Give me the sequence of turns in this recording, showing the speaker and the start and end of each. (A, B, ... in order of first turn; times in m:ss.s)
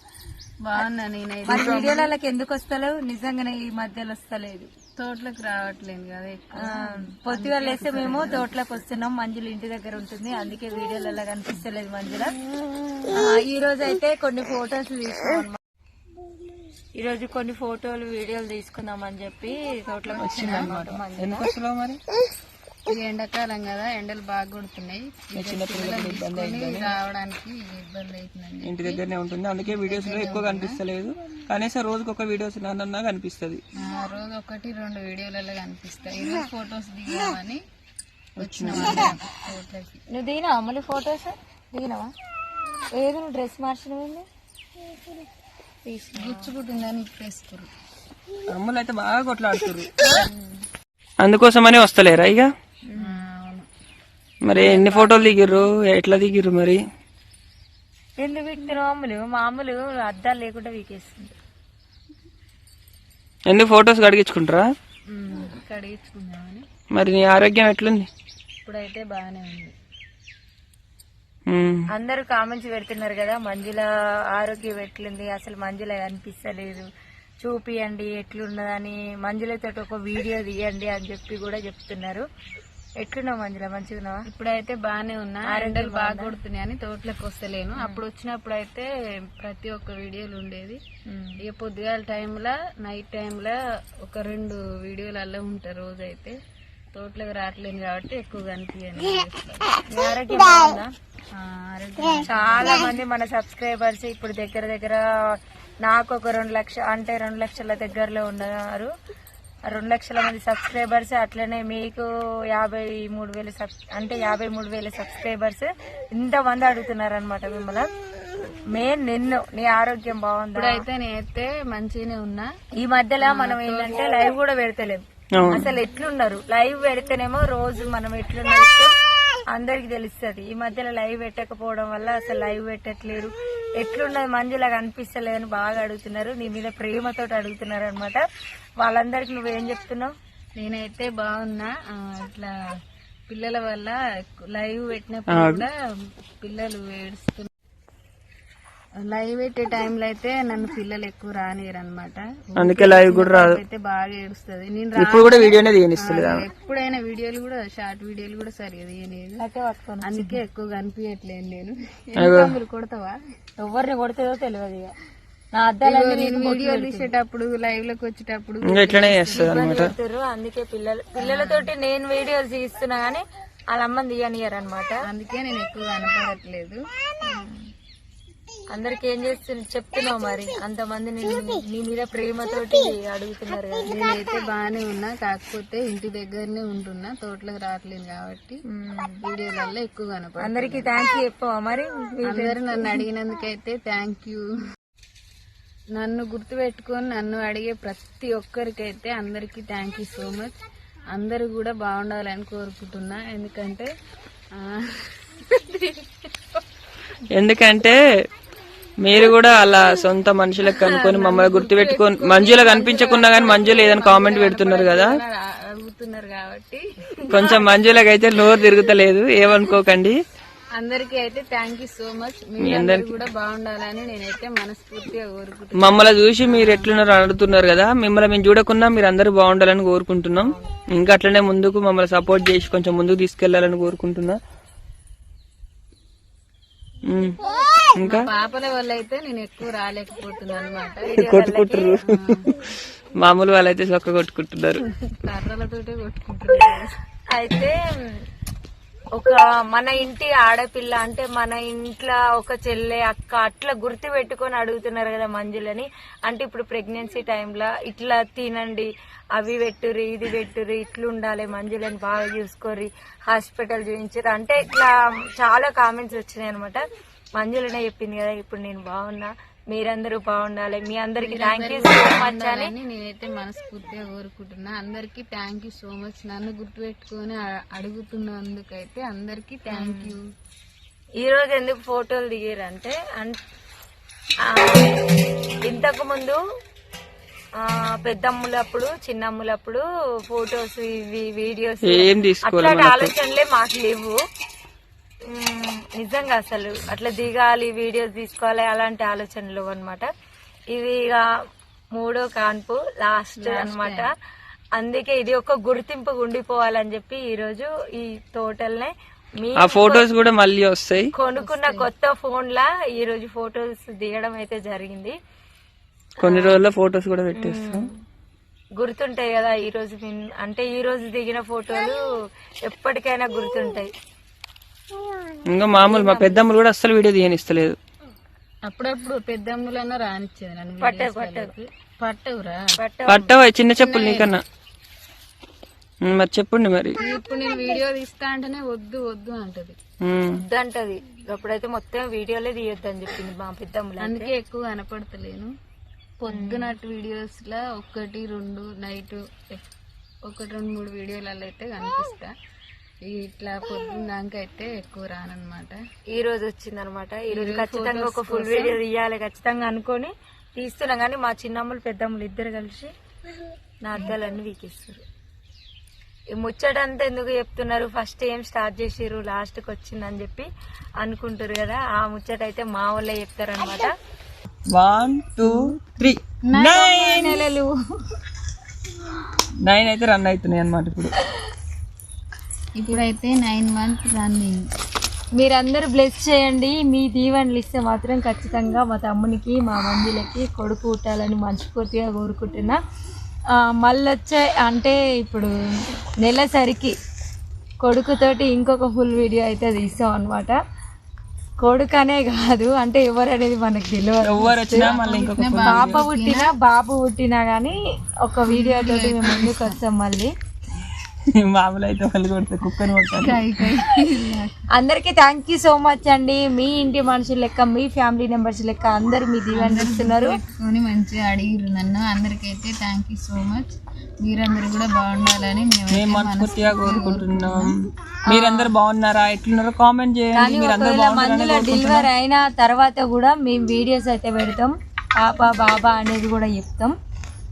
0:00.6-0:02.1 A
0:01.4-0:04.7 B
0:05.0-0:08.5 A
0:06.6-0:12.4 B
0:13.1-0:15.6 B
0:17.0-0:21.5 B
0:20.2-0:22.0 C
0:20.4-0:20.7 A
0:22.9-0:29.0 A
0:25.4-0:27.0 C
0:28.6-0:33.6 C
0:29.7-0:30.8 A
0:33.8-0:37.6 A
0:38.4-0:39.2 C
0:38.4-0:40.0 A
0:40.1-0:42.1 B
0:43.0-0:44.3 B
0:45.9-0:46.5 B
0:46.2-0:47.7 A
0:48.5-0:49.9 C
0:50.0-0:50.5 B
0:51.2-0:52.5 C
0:52.9-0:53.2 B
0:53.0-0:53.7 A
0:54.4-0:56.8 C
0:54.5-0:55.4 B
0:58.2-1:01.4 B
1:03.5-1:04.7 C
1:05.1-1:06.7 A
1:06.9-1:08.1 C
1:08.6-1:09.8 A
1:11.5-1:11.9 C
1:11.9-1:16.9 B
1:17.4-1:22.3 B
1:23.0-1:24.2 B
1:24.3-1:30.8 A
1:25.5-1:26.3 B
1:27.8-1:28.0 B
1:31.1-1:31.4 B
1:31.4-1:36.4 A
1:36.9-1:39.7 A
1:39.9-1:40.9 B
1:41.4-1:42.9 A
1:42.3-1:48.9 B
1:49.7-1:57.9 B
1:58.7-2:00.8 B
2:00.6-2:02.5 A
2:02.8-2:08.9 B
2:03.2-2:04.0 A
2:05.3-2:05.7 C
2:09.5-2:18.2 B
2:18.8-2:20.1 B
2:20.6-2:22.6 A
2:23.3-2:25.7 A
2:25.3-2:25.7 C
2:26.4-2:27.5 A
2:29.0-2:39.4 A
2:32.6-2:33.6 C
2:35.0-2:36.5 C
2:39.4-2:40.3 B
2:40.0-2:43.2 A
2:42.2-2:42.6 C
2:43.6-2:45.0 B
2:45.5-2:47.1 B
2:45.8-2:49.6 A
2:48.6-2:49.9 C
2:49.2-2:55.0 B
2:51.2-2:51.7 A
2:55.0-2:56.8 A
2:57.2-2:57.6 B
2:58.7-3:03.9 B
3:03.9-3:08.6 A
3:08.7-3:09.2 B
3:09.2-3:10.9 A
3:10.4-3:13.0 B
3:12.2-3:14.5 A
3:16.0-3:20.6 A
3:21.1-3:23.9 A
3:24.6-3:26.2 A
3:27.3-3:28.0 C
3:29.0-3:35.2 C
3:31.0-3:37.5 A
3:37.3-3:37.6 B
3:37.3-3:40.2 C
3:40.8-3:46.9 A
3:42.6-3:43.2 C
3:45.8-3:54.4 C
3:57.1-3:57.4 C
3:58.0-3:58.3 C
3:58.0-4:01.2 A
4:01.0-4:02.0 B
4:01.1-4:02.6 C
4:02.0-4:02.5 A
4:03.2-4:04.8 C
4:05.1-4:07.0 A
4:07.3-4:08.2 B
4:09.2-4:26.8 B
4:27.4-4:32.7 B
4:31.2-4:40.2 A
4:39.7-4:40.1 B
4:41.2-4:43.4 B
4:44.5-4:45.0 B
4:45.7-4:46.4 B
4:47.6-4:54.2 B
4:51.8-4:53.1 C
4:55.3-5:00.1 B
5:00.7-5:01.2 B
5:01.9-5:04.1 B
5:03.4-5:04.1 A
5:04.8-5:10.1 B
5:09.6-5:11.1 C
5:11.1-5:15.2 B
5:11.4-5:11.9 A
5:16.2-5:16.6 B
5:16.2-5:17.9 C
5:17.4-5:18.0 B
5:18.8-5:22.0 B
5:22.7-5:23.9 B
5:25.5-5:27.8 C
5:25.7-5:26.5 B
5:28.7-5:32.6 A
5:30.8-5:31.5 B
5:32.8-5:33.5 B
5:33.1-5:34.4 C
5:33.8-5:34.4 A
5:36.0-5:37.0 C
5:37.0-5:39.8 A
5:40.0-5:40.4 C
5:40.4-5:44.3 B
5:44.0-5:45.5 A
5:46.2-5:49.7 A
5:46.3-5:46.8 B
5:50.3-5:52.3 A
5:53.1-5:55.8 A
5:56.2-6:02.9 B
5:57.3-5:58.8 A
6:03.8-6:05.0 B
6:06.3-6:10.5 B
6:11.0-6:13.9 B
6:14.7-6:17.4 C
6:16.5-6:17.7 A
6:19.6-6:21.2 C
6:22.8-6:24.7 A
6:25.4-6:32.8 B
6:33.6-6:35.5 B
6:36.2-6:37.0 B
6:37.8-6:40.6 B
6:41.6-6:45.0 B
6:44.2-6:46.1 C
6:44.7-6:46.5 A
6:45.6-6:50.3 B
6:48.4-6:49.8 A
6:51.3-6:53.4 C
6:53.1-6:54.6 A
6:54.7-7:00.4 B
6:59.5-7:07.7 A
7:05.9-7:12.1 C
7:08.3-7:08.7 B
7:10.4-7:17.0 B